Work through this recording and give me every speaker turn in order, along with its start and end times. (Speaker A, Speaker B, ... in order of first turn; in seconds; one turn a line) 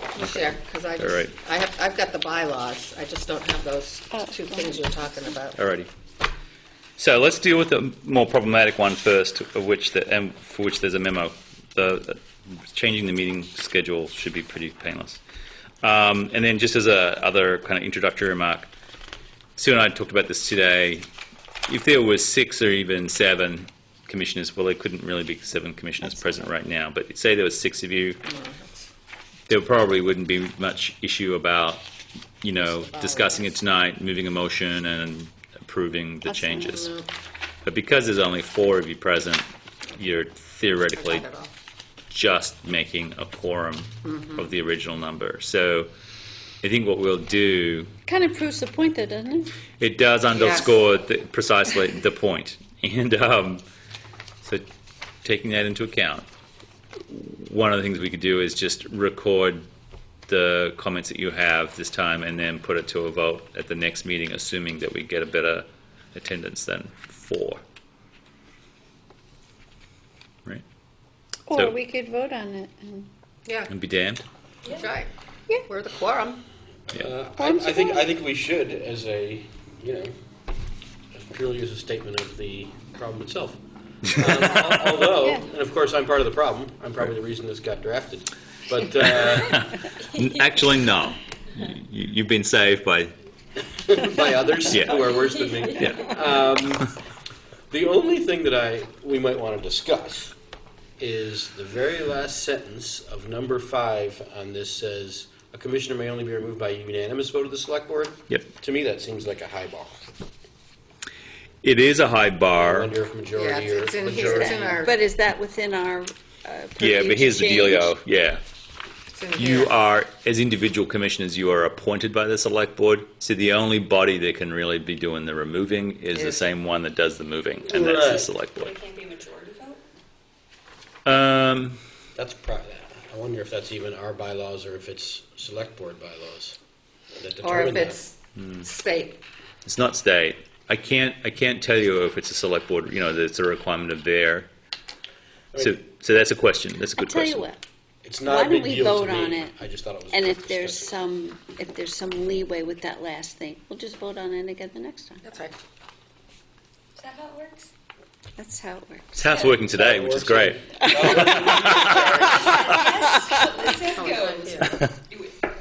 Speaker A: 0.1-5.6
Speaker B: 0.2-1.3
Speaker C: 4.1-5.2
Speaker B: 5.5-5.9
Speaker B: 7.0-15.2
Speaker B: 15.8-18.7
Speaker B: 19.6-21.1
Speaker B: 21.7-28.2
Speaker C: 26.0-26.5
Speaker A: 28.2-28.9
Speaker B: 29.5-31.8
Speaker B: 32.4-36.9
Speaker A: 32.5-33.5
Speaker C: 36.3-36.7
Speaker A: 36.5-37.1
Speaker B: 37.6-39.4
Speaker B: 40.0-41.2
Speaker A: 40.9-41.5
Speaker B: 42.1-45.9
Speaker A: 44.0-44.5
Speaker B: 46.6-47.9
Speaker C: 48.1-49.6
Speaker B: 49.8-53.6
Speaker A: 50.3-50.9
Speaker B: 55.2-56.2
Speaker B: 57.1-59.7
Speaker B: 60.3-67.6
Speaker C: 71.5-73.1
Speaker B: 71.5-71.8
Speaker A: 73.5-73.7
Speaker B: 73.7-74.2
Speaker A: 74.7-75.1
Speaker A: 75.6-76.4
Speaker D: 76.9-80.1
Speaker C: 77.4-78.1
Speaker D: 81.1-89.7
Speaker B: 84.2-84.5
Speaker B: 89.3-93.1
Speaker E: 90.2-90.7
Speaker D: 93.8-96.9
Speaker B: 94.7-95.0
Speaker E: 94.9-96.0
Speaker B: 95.8-96.1
Speaker D: 97.7-100.3
Speaker D: 101.0-110.1
Speaker B: 111.6-112.9
Speaker D: 112.5-114.8
Speaker A: 113.3-115.0
Speaker C: 114.2-118.0
Speaker B: 116.8-118.4
Speaker A: 119.1-119.7
Speaker B: 119.3-128.7
Speaker A: 126.1-126.4
Speaker D: 127.7-128.3
Speaker E: 128.6-129.8
Speaker B: 131.0-131.8
Speaker D: 132.1-136.6
Speaker D: 137.1-138.0
Speaker A: 137.4-139.2
Speaker B: 138.4-138.7
Speaker B: 139.6-144.5
Speaker D: 145.5-145.8
Speaker B: 145.6-147.5
Speaker C: 146.9-147.6
Speaker D: 148.0-151.0
Speaker C: 148.2-149.6
Speaker C: 150.1-155.2
Speaker A: 155.2-155.6
Speaker E: 156.9-157.7
Speaker C: 158.4-159.3
Speaker B: 159.2-162.7
Speaker E: 159.2-159.6
Speaker D: 159.5-163.0
Speaker C: 160.8-163.6
Speaker E: 161.9-165.4
Speaker A: 163.7-164.8